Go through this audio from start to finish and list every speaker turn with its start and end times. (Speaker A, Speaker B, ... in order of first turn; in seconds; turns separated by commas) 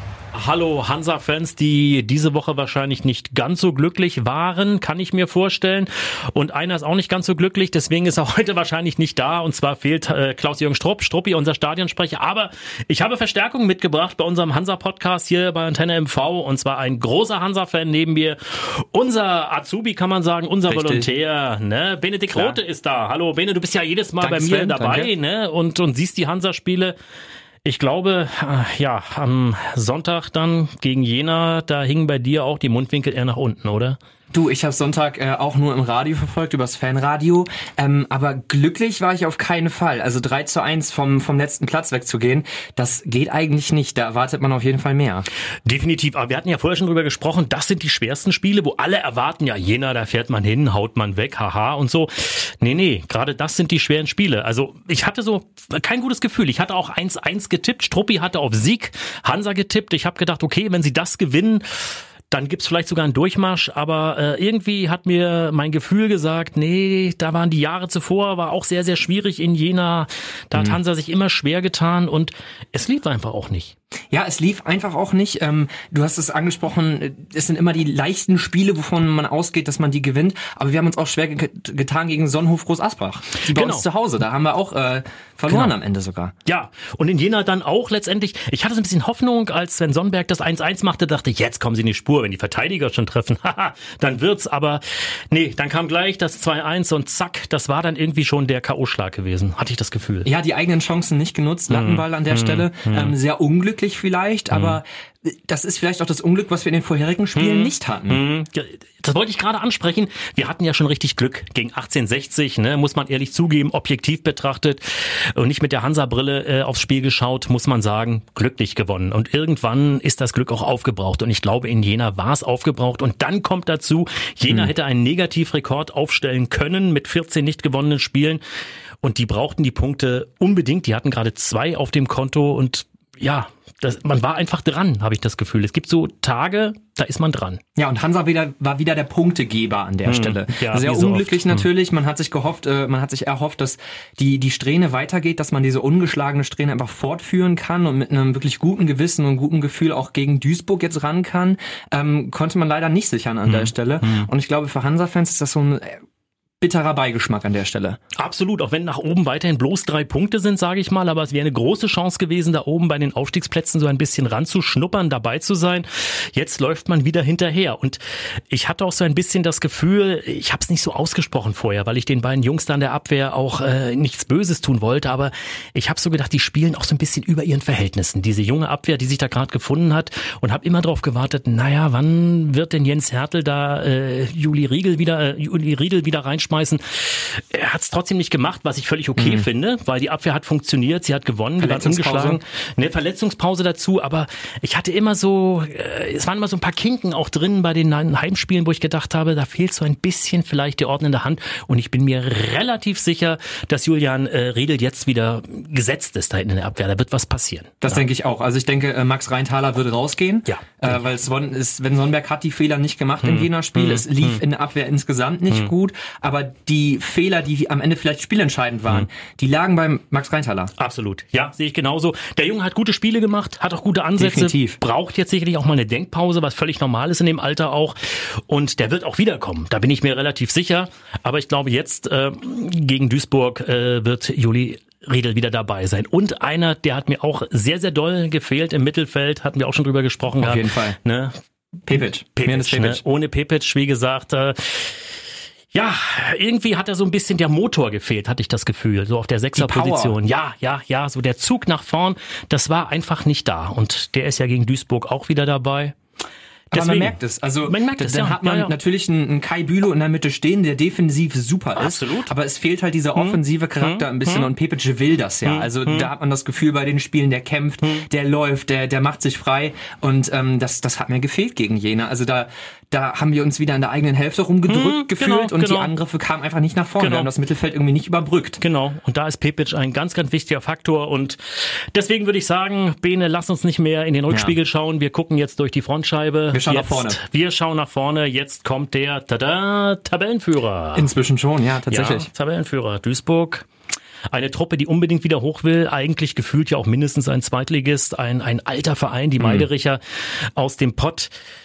Speaker A: 0.3-26.9, Speaker B: 20.7-21.1, Speaker B: 22.3-22.6, Speaker B: 24.2-25.1, Speaker A: 27.6-34.0, Speaker B: 34.3-45.2, Speaker A: 45.6-73.7, Speaker B: 74.1-86.3, Speaker A: 83.5-83.8, Speaker A: 85.5-85.7, Speaker A: 86.5-100.3, Speaker B: 100.2-108.2, Speaker A: 101.7-103.1, Speaker A: 104.5-104.8, Speaker A: 107.3-128.4, Speaker A: 129.0-137.6, Speaker B: 137.8-156.0, Speaker A: 140.0-141.7, Speaker A: 153.4-154.3, Speaker B: 156.6-158.0, Speaker A: 158.2-208.0, Speaker B: 189.2-189.4, Speaker B: 191.6-192.4, Speaker B: 207.8-220.7, Speaker A: 210.4-211.0, Speaker A: 213.2-214.4, Speaker A: 220.8-241.3, Speaker B: 224.2-224.8, Speaker B: 240.4-241.0, Speaker B: 241.9-243.0, Speaker A: 241.9-245.2, Speaker A: 245.7-255.9, Speaker B: 249.5-250.2, Speaker A: 256.7-258.7, Speaker B: 256.7-278.6, Speaker A: 261.8-262.3, Speaker A: 263.1-264.5, Speaker A: 265.4-266.1, Speaker A: 267.8-268.1, Speaker A: 274.7-275.9, Speaker A: 277.0-277.3, Speaker A: 278.6-291.1, Speaker B: 286.5-287.2, Speaker B: 290.9-292.3, Speaker A: 291.9-293.7, Speaker A: 294.3-301.3, Speaker B: 299.4-299.7